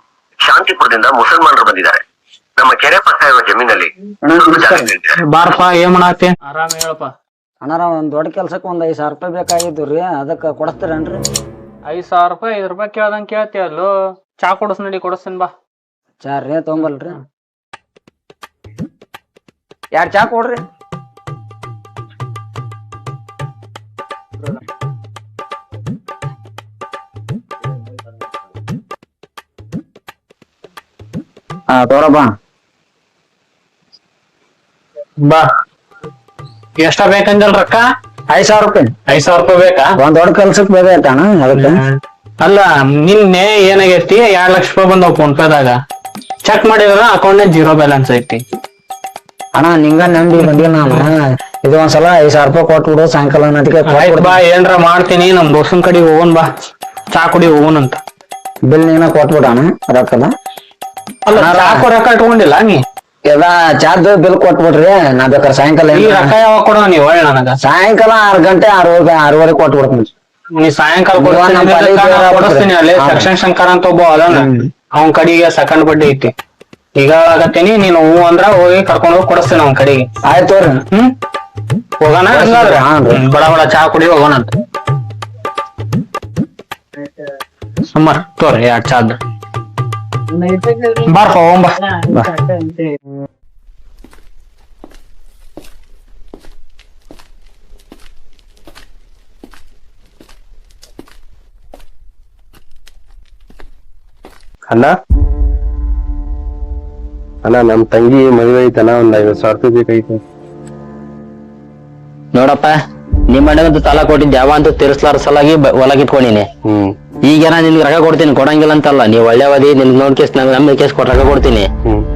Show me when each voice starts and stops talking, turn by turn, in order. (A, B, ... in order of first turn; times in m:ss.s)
0:00.4-0:02.0 A
0:02.6-0:05.2 A
0:04.2-0:04.9 B
0:05.2-0:07.1 C
0:07.6-0:11.2 B
0:11.8-0:15.5 C
0:16.2-0:17.2 B
0:19.9-0:20.6 B
0:31.7-0:32.3 B
0:36.8-0:37.8 C
0:38.3-0:38.9 B
0:39.1-0:39.9 C
0:40.0-0:41.8 B
0:41.5-0:41.9 C
0:42.4-0:45.7 C
0:46.4-0:48.4 C
0:49.5-0:54.4 B
0:53.9-0:56.4 C
0:57.1-0:58.0 C
0:58.7-1:00.3 B
1:01.3-1:02.8 C
1:01.4-1:01.8 B
1:03.3-1:06.3 B
1:05.9-1:07.6 C
1:07.6-1:10.1 B
1:10.6-1:16.3 C
1:11.2-1:13.3 B
1:14.3-1:14.7 B
1:16.9-1:20.1 C
1:20.2-1:20.8 B
1:22.0-1:24.5 C
1:22.3-1:23.2 B
1:27.9-1:29.2 C
1:30.4-1:30.9 B
1:31.0-1:31.8 C
1:32.0-1:33.0 B
1:44.7-1:44.9 D
1:47.4-1:50.2 D
1:52.3-1:52.8 E
1:53.3-1:56.5 E
1:56.6-1:56.9 D
1:57.2-2:01.7 E